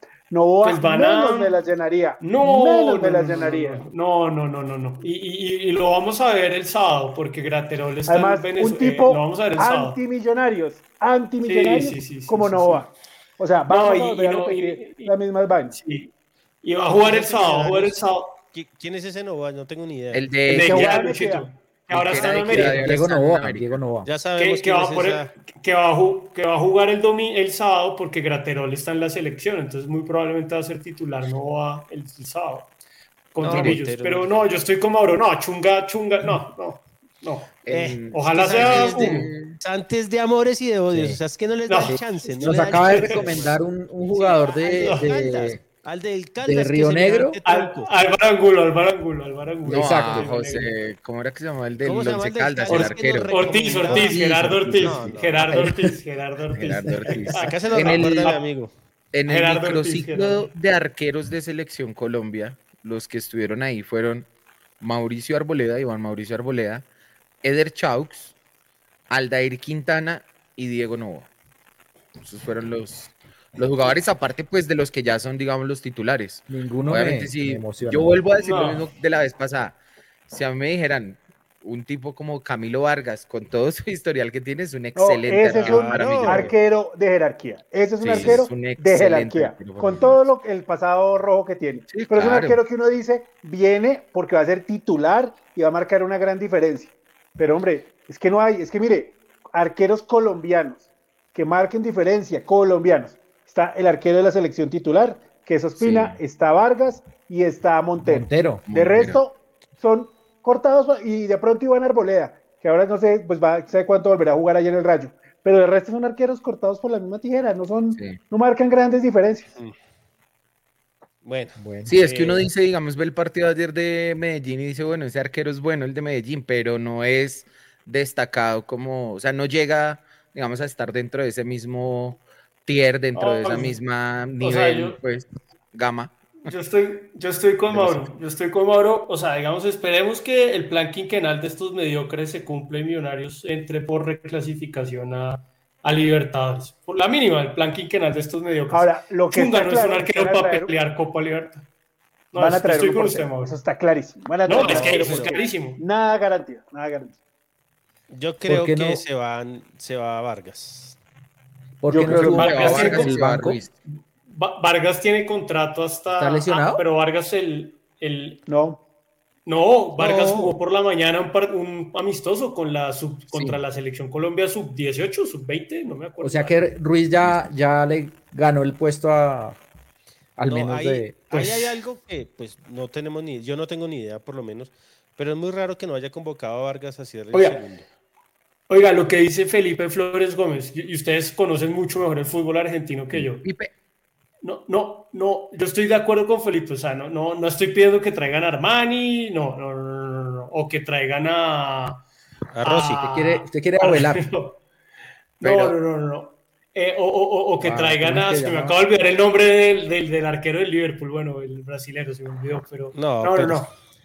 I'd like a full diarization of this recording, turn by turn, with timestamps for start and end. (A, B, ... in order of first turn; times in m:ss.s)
0:00.3-0:03.8 A
0:00.6-0:01.6 B
0:02.2-0:10.0 B
0:08.1-0:15.8 A
0:11.4-0:12.8 B
0:13.7-0:15.1 B
0:15.7-0:16.1 B
0:16.6-0:18.4 B
0:17.0-0:20.3 C
0:20.1-0:21.0 D
0:20.4-0:23.0 B
0:20.5-0:21.5 A
0:21.9-0:23.7 D
0:22.1-0:22.8 C
0:22.7-0:24.1 E
0:24.0-0:25.3 C
0:24.4-0:32.7 B
0:33.3-0:39.3 B
0:33.4-0:34.4 C
0:33.5-0:33.8 D
0:37.6-0:39.6 D
0:37.7-0:43.6 C
0:40.9-0:41.2 E
0:41.7-0:43.3 B
0:41.8-0:45.6 E
0:44.1-0:47.9 C
0:44.8-0:45.1 B
0:46.4-0:47.4 E
0:47.4-0:50.7 B
0:49.6-0:50.3 E
0:49.7-0:55.2 D
0:51.8-0:55.5 C
0:52.7-0:58.4 B
0:55.5-0:55.9 E
0:56.5-0:58.4 D
0:57.4-0:58.7 C
0:59.1-1:04.3 D
0:59.2-1:00.5 B
1:04.8-1:06.8 D
1:07.4-1:08.3 D
1:09.1-1:11.3 D
1:12.2-1:19.8 D
1:16.5-1:18.2 E
1:18.4-1:18.9 B
1:20.3-1:26.5 D
1:24.9-1:59.5 A
1:25.5-1:26.5 C
1:28.0-1:30.2 D
1:31.9-1:32.6 D
1:45.8-1:46.2 D
1:48.0-1:48.7 E
1:48.7-1:49.2 D
1:57.9-1:58.2 D
2:01.2-2:02.5 C
2:01.6-2:01.9 E
2:01.8-2:16.5 D
2:13.1-2:13.8 B
2:14.4-2:15.0 B
2:16.4-2:31.6 B
2:17.7-2:18.0 D
2:28.7-2:30.7 A
2:32.3-2:33.6 B
2:32.3-2:37.2 A
2:34.5-2:35.8 B
2:34.5-2:35.3 C
2:38.1-2:41.0 C
2:38.4-2:39.0 E
2:41.8-2:43.6 E
2:41.9-2:42.9 A
2:42.1-2:43.7 D
2:42.2-2:43.2 B
2:43.9-2:48.4 B
2:46.1-2:46.8 E
2:48.5-2:48.8 A
2:49.4-2:56.6 B
2:50.0-2:50.4 E
2:53.3-2:53.6 E
2:56.2-2:59.6 E
3:00.4-3:01.2 E
3:00.5-3:07.8 C
3:01.3-3:01.7 B
3:07.3-3:07.6 B
3:08.7-3:13.4 B
3:13.1-3:13.7 D
3:14.4-3:22.0 B
3:22.5-3:23.0 C
3:22.6-3:24.6 B
3:23.0-3:24.3 E
3:25.4-3:33.7 B
3:25.4-3:25.8 D
3:27.6-3:28.8 E
3:32.9-3:33.7 C